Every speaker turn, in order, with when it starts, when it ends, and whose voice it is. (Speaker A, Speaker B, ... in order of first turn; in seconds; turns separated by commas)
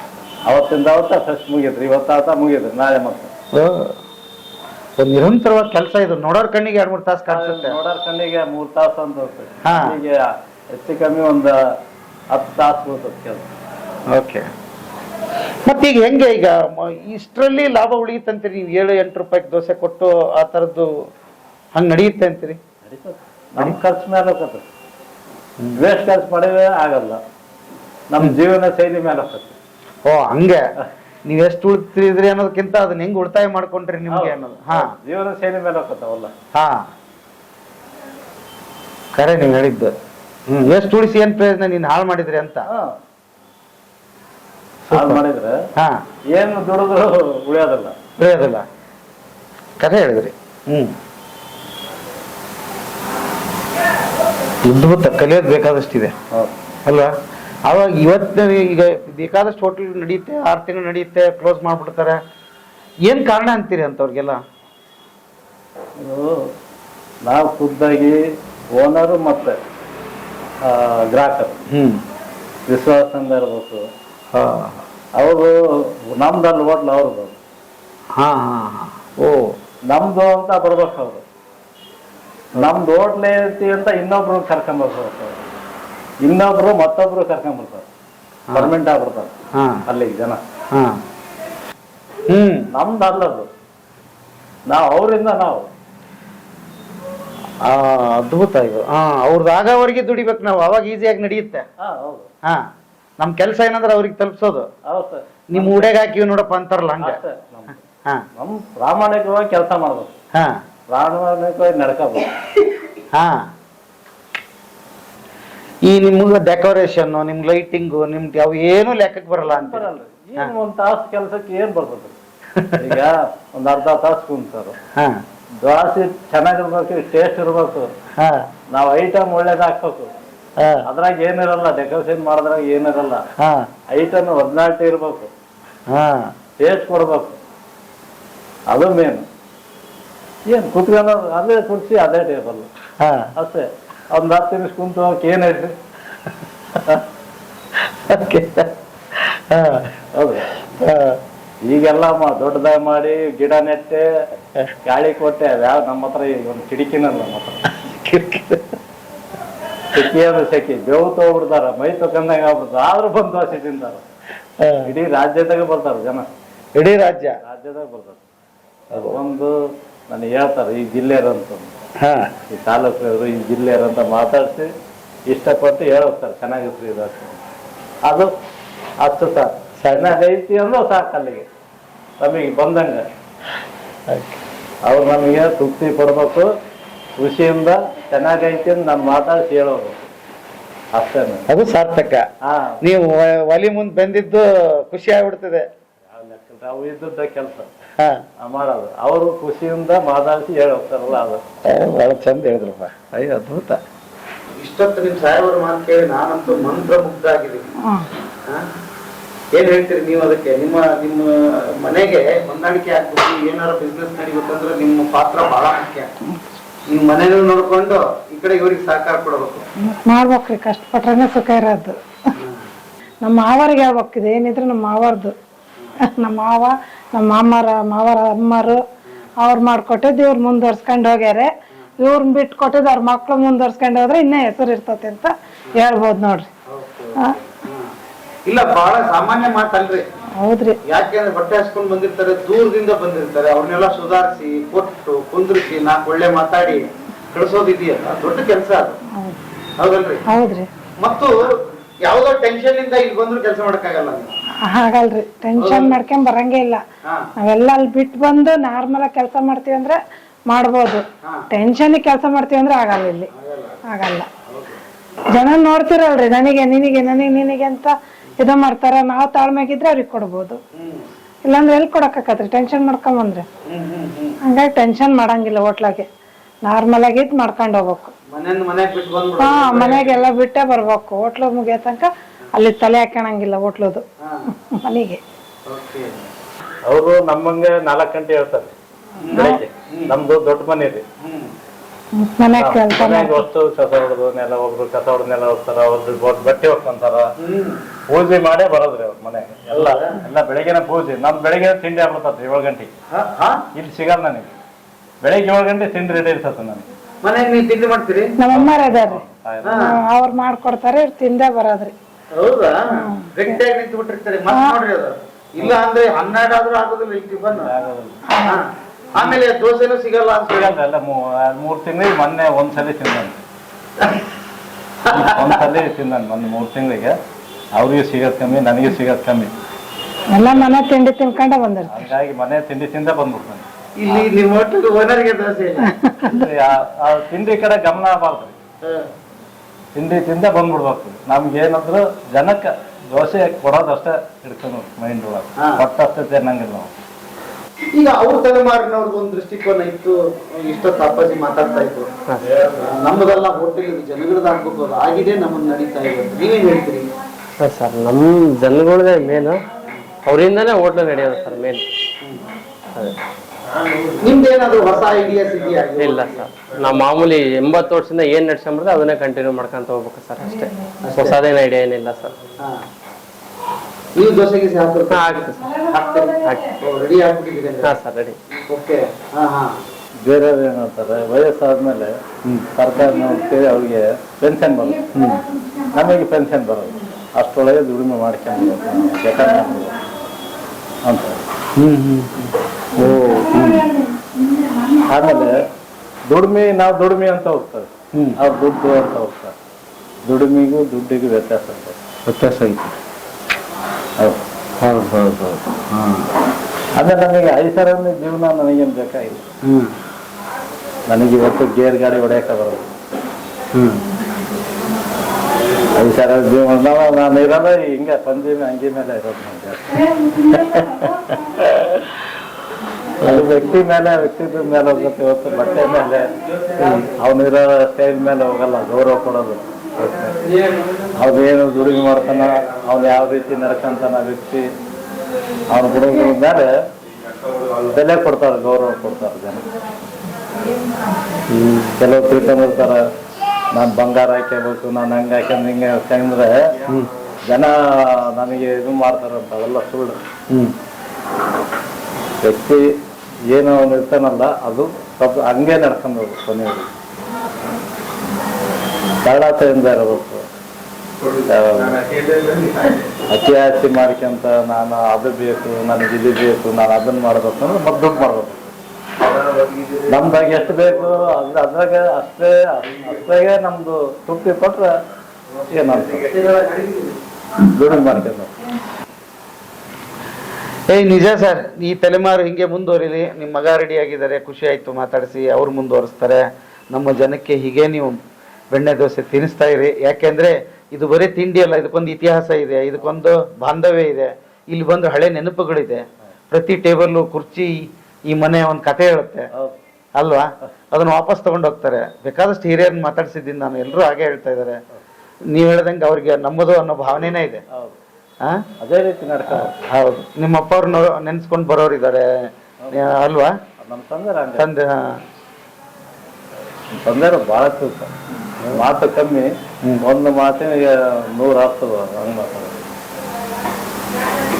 Speaker A: 0.5-3.3, Speaker B: 3.5-4.0, Speaker B: 5.0-7.8, Speaker A: 7.3-10.2, Speaker B: 9.6-10.0, Speaker A: 10.7-11.7, Speaker A: 12.3-13.5, Speaker B: 14.1-14.4, Speaker B: 15.7-20.9, Speaker B: 21.7-22.6, Speaker A: 22.8-24.6, Speaker A: 25.8-27.2, Speaker A: 28.1-29.6, Speaker B: 30.1-30.6, Speaker B: 31.2-34.9, Speaker A: 34.1-36.3, Speaker B: 36.5-36.9, Speaker B: 39.1-39.9, Speaker B: 40.5-42.7, Speaker A: 42.7-43.0, Speaker B: 44.9-45.2, Speaker A: 44.9-45.6, Speaker A: 46.3-47.9, Speaker B: 48.2-48.6, Speaker B: 49.8-50.9, Speaker B: 54.6-56.1, Speaker B: 56.9-57.1, Speaker B: 57.7-62.2, Speaker B: 63.0-64.4, Speaker A: 66.0-66.5, Speaker A: 67.2-68.2, Speaker A: 68.7-69.6, Speaker A: 70.6-71.6, Speaker B: 71.7-72.0, Speaker A: 72.7-73.8, Speaker B: 74.3-74.8, Speaker A: 75.1-77.4, Speaker B: 78.2-79.5, Speaker A: 79.9-81.2, Speaker A: 82.5-85.3, Speaker A: 86.2-87.9, Speaker A: 88.5-89.3, Speaker B: 89.5-89.8, Speaker A: 89.8-90.4, Speaker B: 90.7-91.0, Speaker B: 92.3-92.7, Speaker A: 92.7-93.5, Speaker A: 94.7-95.7, Speaker B: 97.6-101.6, Speaker A: 101.8-102.3, Speaker B: 102.5-104.7, Speaker A: 104.9-105.9, Speaker B: 105.5-107.2, Speaker A: 107.0-107.8, Speaker A: 108.3-110.1, Speaker B: 110.3-110.6, Speaker A: 110.9-112.3, Speaker B: 113.1-113.5, Speaker B: 115.8-120.5, Speaker A: 119.4-122.2, Speaker B: 122.5-123.0, Speaker A: 122.8-124.8, Speaker A: 125.6-127.9, Speaker B: 128.2-128.5, Speaker A: 128.7-130.1, Speaker B: 130.6-130.8, Speaker A: 130.8-133.2, Speaker B: 133.4-133.7, Speaker A: 133.9-135.3, Speaker B: 135.9-136.3, Speaker A: 136.6-137.4, Speaker A: 138.7-139.2, Speaker A: 140.5-142.7, Speaker B: 143.0-143.3, Speaker A: 143.3-145.7, Speaker B: 147.8-149.9, Speaker A: 150.1-150.6, Speaker B: 150.7-151.2, Speaker A: 151.6-154.1, Speaker A: 154.8-157.6, Speaker B: 157.8-158.8, Speaker A: 159.9-164.1, Speaker B: 164.6-164.9, Speaker A: 164.8-166.3, Speaker B: 166.8-167.4, Speaker A: 167.4-168.2, Speaker A: 168.9-169.5, Speaker B: 168.9-169.2, Speaker A: 170.1-171.7, Speaker B: 172.0-172.3, Speaker A: 172.5-174.7, Speaker A: 175.3-177.4, Speaker A: 179.0-181.4, Speaker B: 179.8-180.2, Speaker A: 182.2-183.0, Speaker B: 184.1-184.4, Speaker A: 184.8-186.5, Speaker A: 187.2-190.1, Speaker A: 190.9-191.4, Speaker B: 191.5-192.2, Speaker A: 192.4-192.8, Speaker B: 192.8-195.7, Speaker A: 196.1-197.7, Speaker B: 198.0-198.2, Speaker A: 198.4-201.4, Speaker B: 201.7-203.8, Speaker B: 204.6-207.7, Speaker B: 209.5-216.1, Speaker B: 216.9-219.7, Speaker C: 219.9-222.0, Speaker B: 222.3-222.6, Speaker C: 223.2-225.3, Speaker C: 226.1-228.8, Speaker C: 229.4-236.5, Speaker B: 236.7-237.9, Speaker B: 238.5-240.1, Speaker C: 240.4-240.8, Speaker B: 240.8-249.0, Speaker B: 249.8-250.2, Speaker C: 250.3-250.7, Speaker B: 251.0-251.5, Speaker B: 252.0-254.3, Speaker C: 254.6-256.8, Speaker B: 255.6-256.0, Speaker C: 257.4-263.3, Speaker B: 263.3-263.8, Speaker C: 263.9-264.3, Speaker B: 264.5-264.8, Speaker C: 265.3-270.6, Speaker B: 270.7-271.1, Speaker C: 271.4-273.4, Speaker B: 273.7-274.4, Speaker C: 274.4-276.1, Speaker C: 276.6-278.1, Speaker B: 278.3-280.2, Speaker C: 279.4-284.0, Speaker B: 284.2-284.5, Speaker C: 284.7-285.2, Speaker B: 285.7-286.1, Speaker A: 286.9-288.7, Speaker B: 289.2-290.1, Speaker A: 289.3-291.0, Speaker B: 291.2-291.5, Speaker C: 292.2-293.4, Speaker A: 292.5-297.3, Speaker B: 297.4-297.8, Speaker A: 298.1-302.9, Speaker B: 299.7-300.2, Speaker B: 303.1-303.6, Speaker A: 303.7-304.5, Speaker A: 305.2-306.9, Speaker B: 307.2-308.3, Speaker C: 308.4-309.2, Speaker A: 308.5-310.0, Speaker B: 309.6-309.9, Speaker C: 309.8-311.9, Speaker B: 312.3-317.7, Speaker C: 312.9-313.5, Speaker A: 317.5-318.2, Speaker C: 318.3-318.6, Speaker B: 318.4-320.7, Speaker A: 319.2-319.4, Speaker A: 320.5-323.4, Speaker B: 324.0-324.2, Speaker B: 325.0-325.6, Speaker A: 325.1-327.1, Speaker A: 327.8-329.5, Speaker C: 330.3-332.0, Speaker A: 331.9-334.2, Speaker B: 334.0-336.0, Speaker C: 335.9-336.4, Speaker A: 336.2-338.6, Speaker A: 339.9-346.9, Speaker B: 347.9-352.1, Speaker B: 352.8-357.1, Speaker D: 357.6-359.6, Speaker D: 360.2-361.8, Speaker B: 364.2-366.4, Speaker D: 366.0-372.3, Speaker B: 371.0-371.4, Speaker B: 374.1-375.3, Speaker D: 375.1-375.7, Speaker B: 375.9-379.7, Speaker D: 376.4-376.7, Speaker D: 377.8-378.4, Speaker A: 380.2-382.1, Speaker A: 382.8-385.2, Speaker B: 385.1-385.4, Speaker A: 385.9-390.1, Speaker A: 391.1-391.4, Speaker B: 391.8-393.9, Speaker A: 395.0-395.6, Speaker A: 396.3-399.5, Speaker A: 400.2-402.0, Speaker B: 402.2-402.9, Speaker B: 404.8-406.3, Speaker A: 406.9-409.5, Speaker B: 409.6-409.9, Speaker A: 411.1-412.9, Speaker B: 413.7-414.0, Speaker A: 415.9-420.8, Speaker A: 421.6-422.0, Speaker A: 423.2-426.3, Speaker B: 423.2-423.5, Speaker B: 426.8-427.1, Speaker A: 427.2-430.4, Speaker A: 431.1-434.6, Speaker A: 435.7-436.7, Speaker A: 437.8-439.6, Speaker B: 441.5-442.0, Speaker A: 442.0-443.0, Speaker A: 443.7-446.8, Speaker A: 447.5-450.2, Speaker A: 452.4-452.8, Speaker A: 453.5-456.9, Speaker A: 459.2-460.4, Speaker A: 461.4-462.0, Speaker B: 462.3-462.8, Speaker A: 463.3-468.7, Speaker A: 470.1-474.9, Speaker A: 475.6-476.4, Speaker B: 476.3-477.1, Speaker A: 477.6-478.6, Speaker B: 480.9-488.2, Speaker B: 488.7-499.5, Speaker B: 500.1-504.8, Speaker B: 505.5-507.6, Speaker A: 507.7-508.0, Speaker A: 508.8-509.7, Speaker B: 509.5-513.5, Speaker A: 513.8-514.7, Speaker B: 514.5-515.2, Speaker A: 516.9-518.1, Speaker B: 518.6-518.9, Speaker A: 518.7-519.5, Speaker A: 520.0-522.9